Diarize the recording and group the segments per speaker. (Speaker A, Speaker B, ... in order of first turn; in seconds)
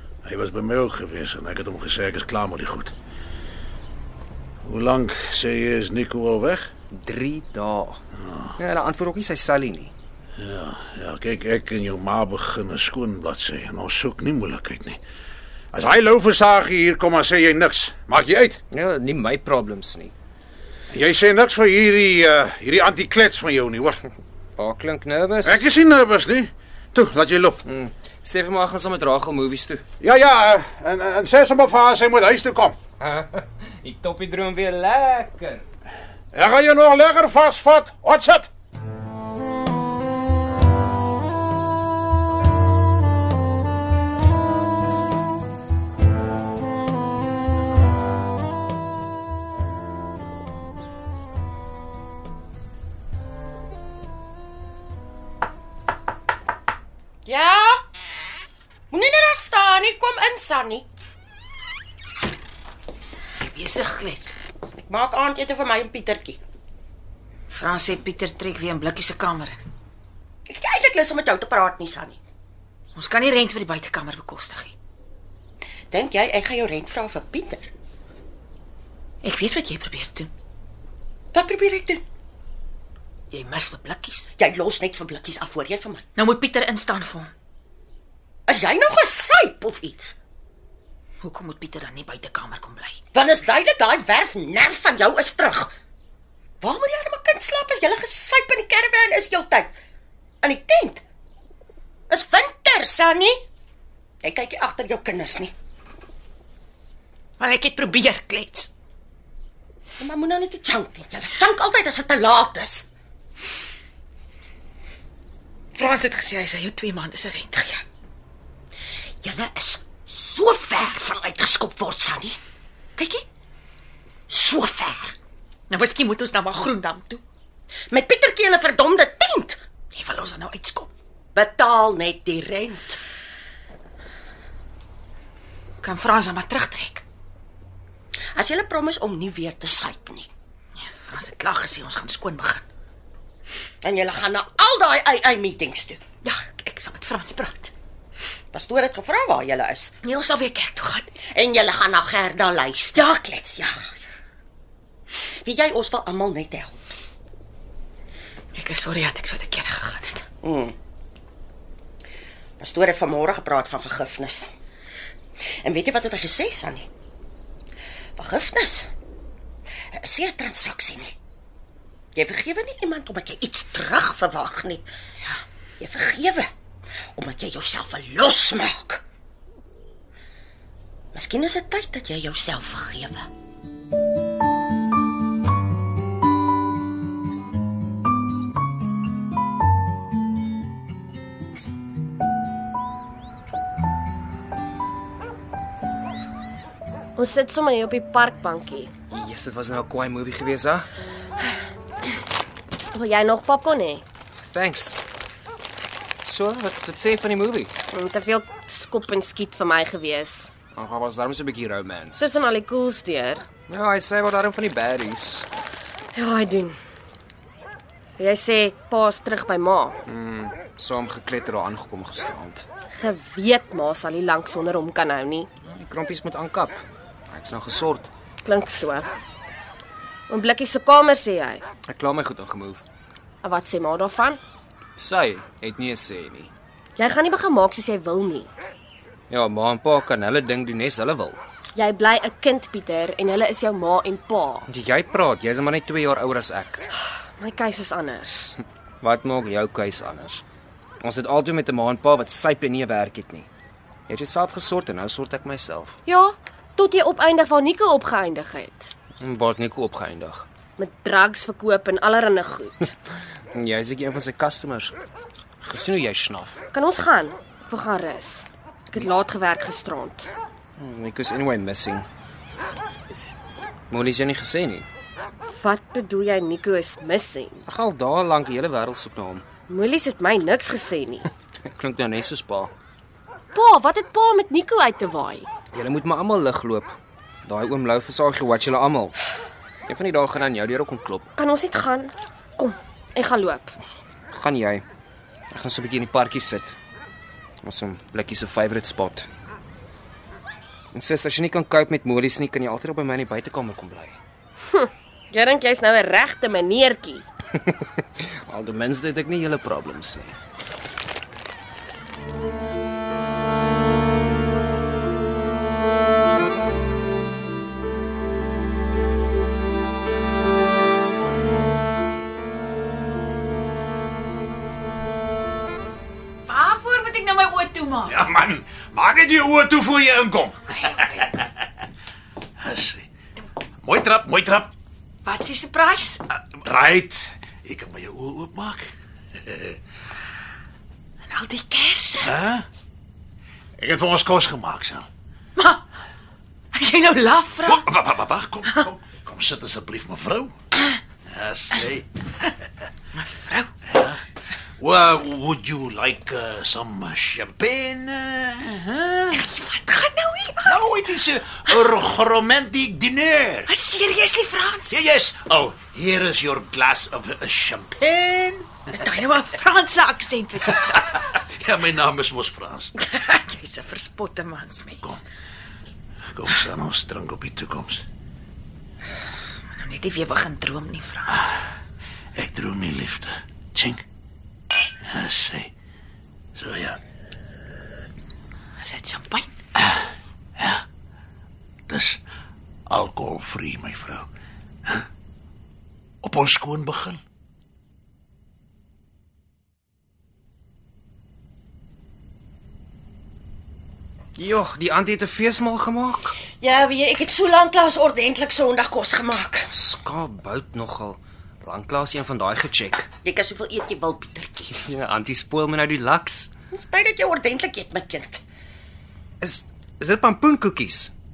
Speaker A: 0.2-2.9, 4.6-6.7, 8.3-8.5, 10.4-15.0, 15.7-18.6, 20.9-24.0, 25.4-27.6, 30.0-32.8, 36.3-38.5, 328.0-331.5, 332.6-333.1, 333.8-334.7, 336.4-339.8, 342.2-342.6, 343.8-345.1, 347.6-350.5, 351.2-352.1, 353.9-354.2, 354.8-359.4, 360.6-363.7, 364.9-368.9, 370.8-372.9, 376.3-378.0, 382.3-384.0, 385.0-385.7, 386.6-387.0, 391.9-392.2, 392.9-394.3, 396.2-397.2
Speaker B: 6.9-8.0, 8.6-9.9, 18.7-20.1, 24.6-25.7, 27.6-29.8, 33.0-35.6, 199.1-200.9, 204.4-205.0, 206.2-207.7, 210.7-212.3, 213.7-215.5, 220.1-222.6, 225.6-228.1, 231.9-232.8, 235.0-236.5, 239.3-241.4, 244.7-246.8, 249.0-250.4, 251.0-253.5, 254.1-256.0, 259.2-260.4, 263.5-264.9, 265.6-266.6, 270.8-272.1, 273.9-274.9, 277.6-279.4, 281.6-282.7, 285.7-286.9, 287.4-289.2, 289.9-291.3, 294.3-294.8, 295.5-296.7, 297.6-299.3, 300.9-304.2, 307.6-310.4, 404.4-406.4, 409.7-413.1, 414.7-416.5, 419.4-421.1
Speaker C: 57.2-57.8, 58.9-60.9, 64.8-66.4, 70.5-72.2, 75.9-77.7, 81.3-82.0, 84.4-86.0, 88.5-90.2, 93.1-95.7, 96.6-99.7, 100.4-101.0, 102.1-103.4, 104.2-105.5, 110.0-112.9, 119.2-122.4, 124.3-125.1, 127.9-129.6, 131.3-133.0, 138.3-140.3, 143.8-146.0, 148.5-149.9, 151.2-153.0, 155.1-156.9, 160.4-160.8, 162.6-164.5, 165.6-166.9, 168.2-168.9, 169.9-171.1, 172.1-174.8, 175.8-176.5, 177.1-179.0, 181.1-183.3, 406.6-409.7, 413.2-414.7, 416.7-418.4
Speaker D: 63.4-64.3, 67.5-69.6, 72.9-74.7, 79.2-80.3, 83.3-84.3, 86.2-87.3, 91.2-93.0, 107.4-108.7, 115.8-117.8, 123.0-123.2, 125.7-127.2, 129.9-130.9, 135.8-137.0, 140.8-142.6, 146.2-147.7, 150.0-151.1, 152.9-154.0, 158.5-160.2, 326.5-328.1, 330.9-331.2, 335.2-336.2, 341.3-342.3, 345.6-345.8, 346.7-347.9, 353.1-353.7, 359.3-360.8, 363.7-365.0, 368.9-371.2, 372.9-375.2, 379.7-381.6, 388.8-389.5
Speaker E: 197.2-198.9, 202.9-204.0, 207.9-210.5, 212.2-213.5, 216.1-216.8, 218.2-220.0, 222.9-225.5, 228.4-229.1, 230.3-231.6, 233.4-234.4, 237.0-238.5, 241.7-244.7, 247.0-248.6, 256.1-258.9, 260.8-262.9, 266.7-270.3, 275.4-277.6, 279.7-281.3, 283.5-285.5, 291.3-293.8, 304.7-307.2